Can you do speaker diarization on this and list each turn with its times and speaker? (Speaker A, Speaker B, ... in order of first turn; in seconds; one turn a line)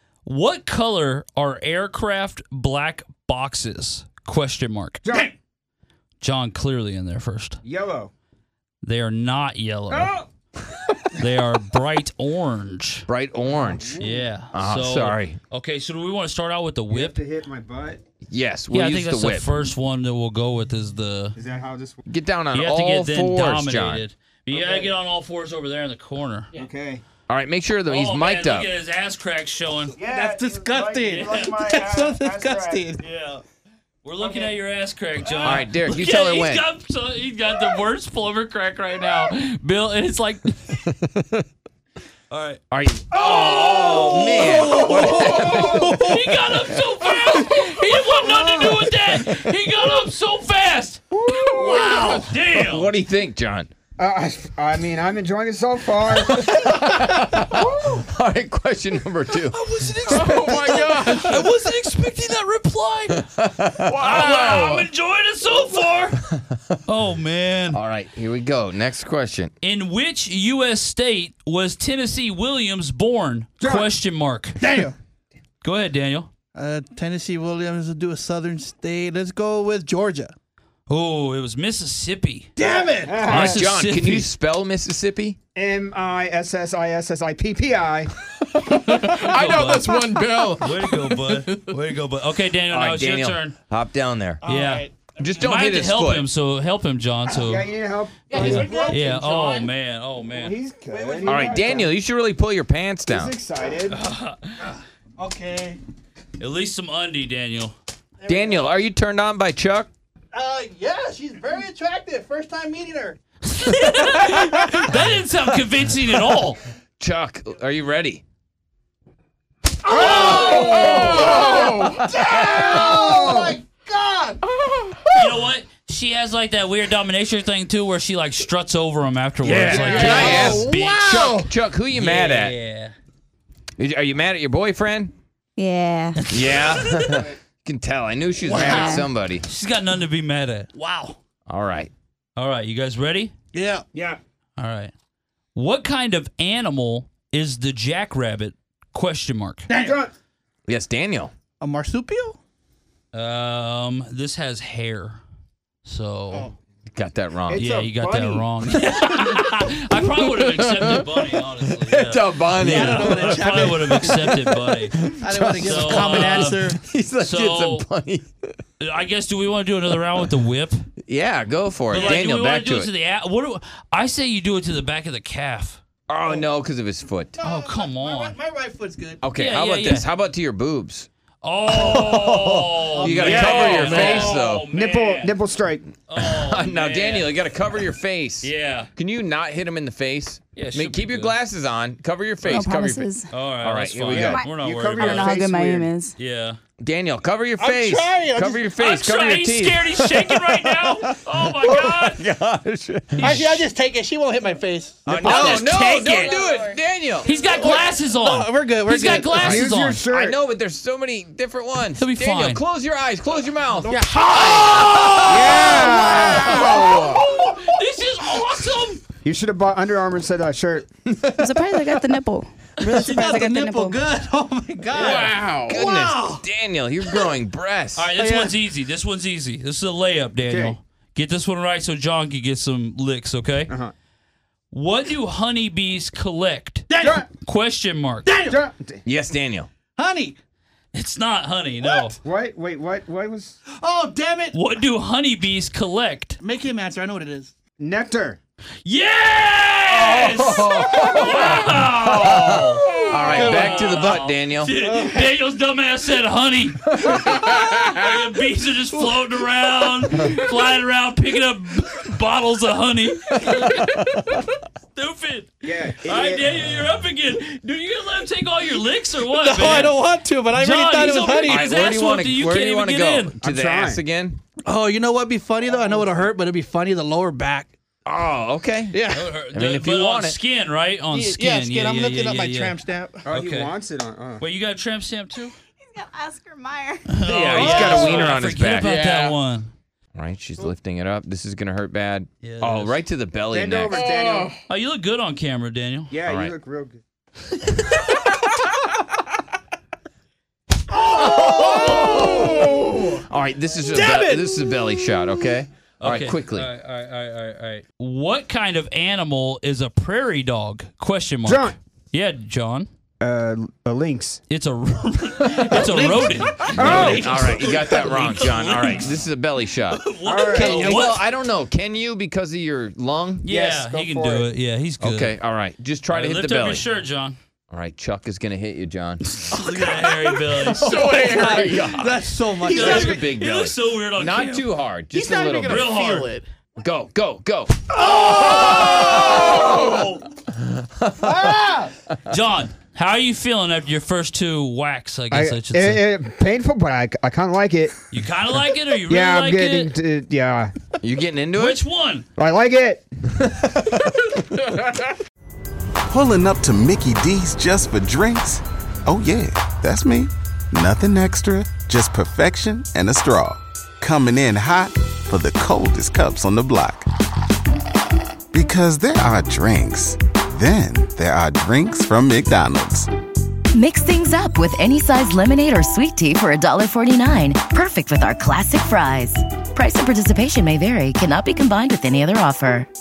Speaker A: 0.3-5.0
Speaker B: 5.0-5.3
Speaker A: 6.2-7.6
Speaker B: 7.6-8.1
Speaker A: 8.8-10.1
Speaker B: 9.9-10.3
Speaker A: 11.1-13.1
Speaker C: 13.1-14.0
Speaker B: 13.5-14.3
Speaker A: 14.0-17.2
Speaker C: 14.5-15.4
Speaker B: 16.9-18.0
Speaker C: 18.2-19.6
Speaker A: 18.7-21.4
Speaker B: 21.4-22.0
Speaker C: 22.1-24.0
Speaker A: 22.5-26.5
Speaker B: 24.5-24.9
Speaker B: 26.5-27.0
Speaker C: 27.3-28.7
Speaker A: 27.9-30.0
Speaker B: 30.0-32.9
Speaker D: 30.0-33.0
Speaker A: 31.1-31.6
Speaker A: 33.0-33.4
Speaker A: 34.0-40.8
Speaker B: 34.2-34.5
Speaker C: 35.4-36.6
Speaker A: 42.3-52.9
Speaker C: 42.7-46.4
Speaker D: 44.0-45.4
Speaker C: 48.8-49.2
Speaker B: 51.1-52.1
Speaker C: 52.5-53.7
Speaker B: 54.0-56.6
Speaker C: 56.1-59.6
Speaker B: 57.5-58.1
Speaker A: 59.3-66.3
Speaker E: 60.1-61.4
Speaker C: 63.2-64.4
Speaker E: 63.9-64.9
Speaker A: 66.8-67.8
Speaker C: 67.7-69.5
Speaker A: 69.6-74.7
Speaker B: 73.6-73.9
Speaker D: 74.6-75.0
Speaker A: 75.6-76.3
Speaker D: 76.5-80.3
Speaker A: 80.9-82.5
Speaker D: 82.6-83.2
Speaker B: 82.7-83.7
Speaker A: 83.2-84.3
Speaker C: 83.3-85.4
Speaker B: 85.5-88.1
Speaker E: 88.7-91.5
Speaker A: 89.0-90.0
Speaker A: 90.6-93.6
Speaker C: 92.7-94.4
Speaker D: 94.4-95.5
Speaker A: 94.4-97.7
Speaker C: 95.2-96.3
Speaker B: 97.3-99.7
Speaker D: 98.3-99.6
Speaker A: 98.3-100.6
Speaker B: 100.3-102.0
Speaker D: 100.8-101.8
Speaker C: 101.3-103.3
Speaker B: 103.1-104.0
Speaker A: 103.9-104.8
Speaker D: 105.2-105.8
Speaker A: 106.4-107.7
Speaker D: 108.2-108.8
Speaker C: 108.3-109.9
Speaker D: 110.3-113.2
Speaker A: 113.5-116.6
Speaker C: 117.0-118.2
Speaker D: 119.8-124.4
Speaker B: 119.9-123.5
Speaker A: 119.9-121.1
Speaker A: 125.1-131.4
Speaker C: 129.4-132.6
Speaker D: 129.4-131.5
Speaker B: 130.1-130.3
Speaker A: 131.9-132.9
Speaker C: 133.8-135.1
Speaker F: 135.6-136.2
Speaker A: 136.2-137.2
Speaker C: 136.3-139.4
Speaker B: 137.0-137.4
Speaker D: 138.4-139.0
Speaker A: 138.5-141.2
Speaker C: 141.5-141.9
Speaker A: 142.4-143.3
Speaker D: 143.5-143.9
Speaker B: 143.9-144.2
Speaker A: 144.6-144.9
Speaker A: 145.6-149.7
Speaker D: 149.7-150.0
Speaker B: 149.8-150.1
Speaker C: 150.7-151.3
Speaker D: 151.6-152.4
Speaker A: 153.1-155.2
Speaker A: 155.8-156.5
Speaker C: 156.9-157.7
Speaker B: 157.5-158.5
Speaker A: 157.6-165.0
Speaker C: 160.0-161.1
Speaker C: 161.9-168.4
Speaker D: 162.6-164.5
Speaker D: 165.1-166.8
Speaker A: 165.6-166.6
Speaker A: 167.2-167.9
Speaker A: 168.8-170.8
Speaker C: 171.1-172.9
Speaker A: 171.9-175.8
Speaker D: 171.9-172.2
Speaker C: 176.1-177.4
Speaker D: 177.4-179.2
Speaker A: 177.4-178.4
Speaker C: 179.2-181.1
Speaker A: 179.3-180.1
Speaker A: 181.4-185.3
Speaker C: 181.7-184.7
Speaker D: 182.9-184.3
Speaker B: 183.2-185.9
Speaker A: 186.1-187.4
Speaker C: 186.2-194.4
Speaker A: 188.4-188.9
Speaker A: 190.6-191.4
Speaker F: 192.5-193.3
Speaker A: 193.3-195.4
Speaker B: 194.1-195.9
Speaker F: 194.2-194.5
Speaker F: 195.0-196.2
Speaker A: 196.2-196.6
Speaker C: 196.8-203.5
Speaker D: 197.6-198.7
Speaker A: 198.8-202.2
Speaker A: 203.2-203.7
Speaker D: 203.2-206.4
Speaker C: 205.1-207.3
Speaker A: 205.1-206.2
Speaker A: 207.2-210.0
Speaker D: 207.4-209.6
Speaker C: 209.4-217.2
Speaker B: 209.4-210.4
Speaker A: 212.0-212.6
Speaker D: 213.8-217.7
Speaker A: 214.3-219.0
Speaker B: 215.2-217.1
Speaker B: 219.2-220.9
Speaker F: 221.4-224.0
Speaker D: 222.8-226.4
Speaker C: 224.9-228.1
Speaker A: 225.0-225.3
Speaker D: 227.1-227.3
Speaker A: 228.0-233.8
Speaker D: 228.2-228.6
Speaker B: 230.4-230.8
Speaker B: 233.7-233.9
Speaker A: 234.7-236.9
Speaker D: 236.9-237.3
Speaker B: 237.0-237.3
Speaker A: 237.4-238.3
Speaker D: 238.2-238.6
Speaker B: 238.5-239.0
Speaker C: 239.1-239.7
Speaker D: 240.0-240.4
Speaker A: 240.9-242.2
Speaker D: 241.9-242.1
Speaker B: 242.2-243.6
Speaker D: 243.7-244.6
Speaker A: 244.5-246.4
Speaker D: 246.4-247.5
Speaker B: 247.8-248.4
Speaker A: 248.8-270.0
Speaker C: 249.9-254.8
Speaker D: 251.0-251.6
Speaker D: 252.8-254.2
Speaker D: 254.8-255.3
Speaker B: 265.6-266.7
Speaker D: 269.3-272.0
Speaker A: 270.6-273.3
Speaker C: 271.5-274.4
Speaker B: 273.4-274.0
Speaker D: 274.7-277.7
Speaker C: 278.1-279.0
Speaker D: 278.9-279.4
Speaker A: 279.1-282.8
Speaker C: 279.5-280.4
Speaker D: 281.1-283.3
Speaker B: 283.3-284.4
Speaker A: 283.3-283.8
Speaker A: 284.4-285.5
Speaker F: 285.9-287.0
Speaker A: 287.1-289.7
Speaker C: 287.2-289.0
Speaker D: 288.8-289.4
Speaker C: 290.1-294.0
Speaker A: 292.4-293.0
Speaker B: 293.5-294.6
Speaker A: 294.7-296.1
Speaker B: 296.1-297.0
Speaker C: 296.3-296.6
Speaker D: 300.9-303.2
Speaker C: 301.2-306.7
Speaker D: 303.9-305.1
Speaker A: 306.0-312.9
Speaker B: 311.4-311.8
Speaker B: 313.2-314.4
Speaker A: 314.5-319.2
Speaker D: 315.6-318.2
Speaker B: 316.8-317.4
Speaker C: 316.8-323.4
Speaker A: 319.9-321.3
Speaker B: 320.2-321.1
Speaker A: 323.4-325.4
Speaker B: 323.5-324.5
Speaker C: 325.0-326.9
Speaker A: 326.1-327.4
Speaker C: 327.7-329.6
Speaker A: 329.3-331.4
Speaker D: 329.7-333.2
Speaker C: 330.5-336.0
Speaker A: 332.6-334.7
Speaker D: 335.1-336.4
Speaker A: 335.6-336.4
Speaker C: 336.8-339.8
Speaker A: 338.0-340.2
Speaker D: 338.1-340.0
Speaker C: 340.6-341.4
Speaker D: 341.2-341.9
Speaker A: 342.2-346.1
Speaker B: 345.3-348.0
Speaker A: 348.1-349.9
Speaker B: 349.1-350.7
Speaker C: 351.0-351.8
Speaker A: 351.6-352.3
Speaker B: 352.4-353.0
Speaker G: 356.1-367.1
Speaker G: 368.5-373.1
Speaker H: 373.7-382.9